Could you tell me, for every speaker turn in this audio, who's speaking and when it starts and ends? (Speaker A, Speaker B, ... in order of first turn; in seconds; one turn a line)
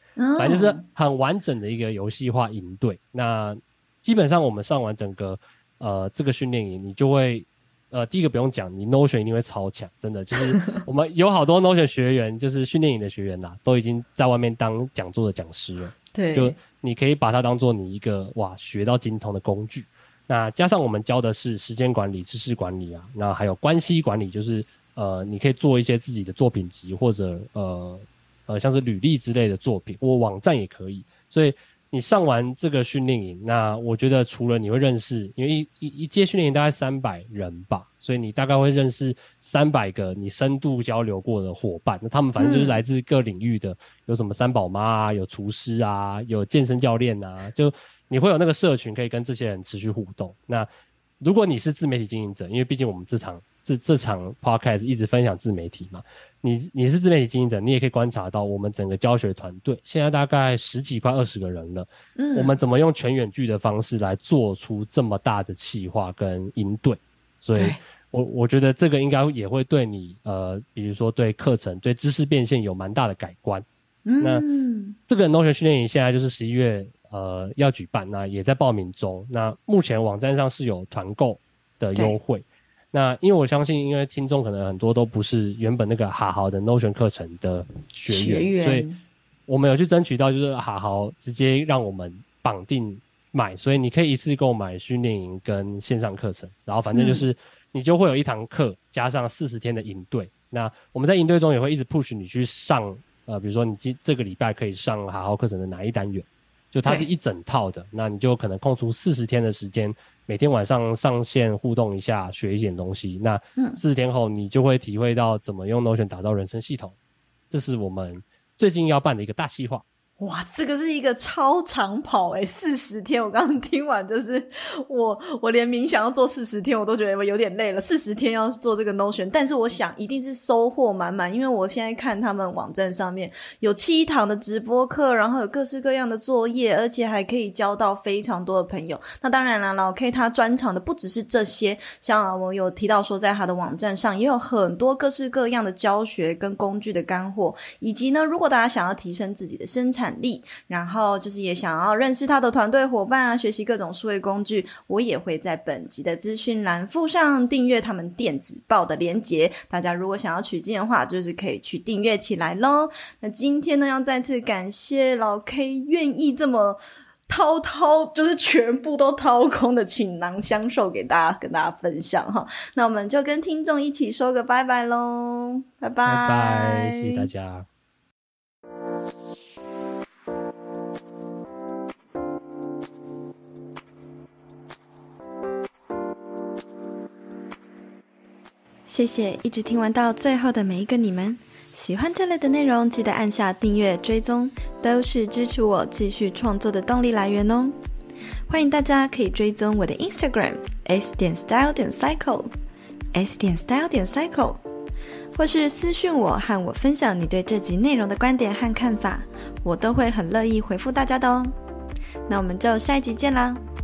Speaker A: 0.2-0.8
Speaker B: 0.4-50.7
Speaker A: 16.1-16.6
Speaker A: 42.4-42.8
Speaker B: 51.2-73.6
Speaker A: 62.2-62.5
Speaker A: 74.1-75.0
Speaker B: 74.2-74.5
Speaker B: 75.1-88.9
Speaker A: 88.1-89.0
Speaker B: 89.5-117.0
Speaker A: 96.9-97.2
Speaker B: 117.5-119.8
Speaker A: 120.2-177.3
Speaker B: 176.1-177.7
Speaker C: 188.9-197.8
Speaker C: 198.5-202.5
Speaker C: 203.1-204.6
Speaker C: 205.3-211.5
Speaker C: 212.3-213.6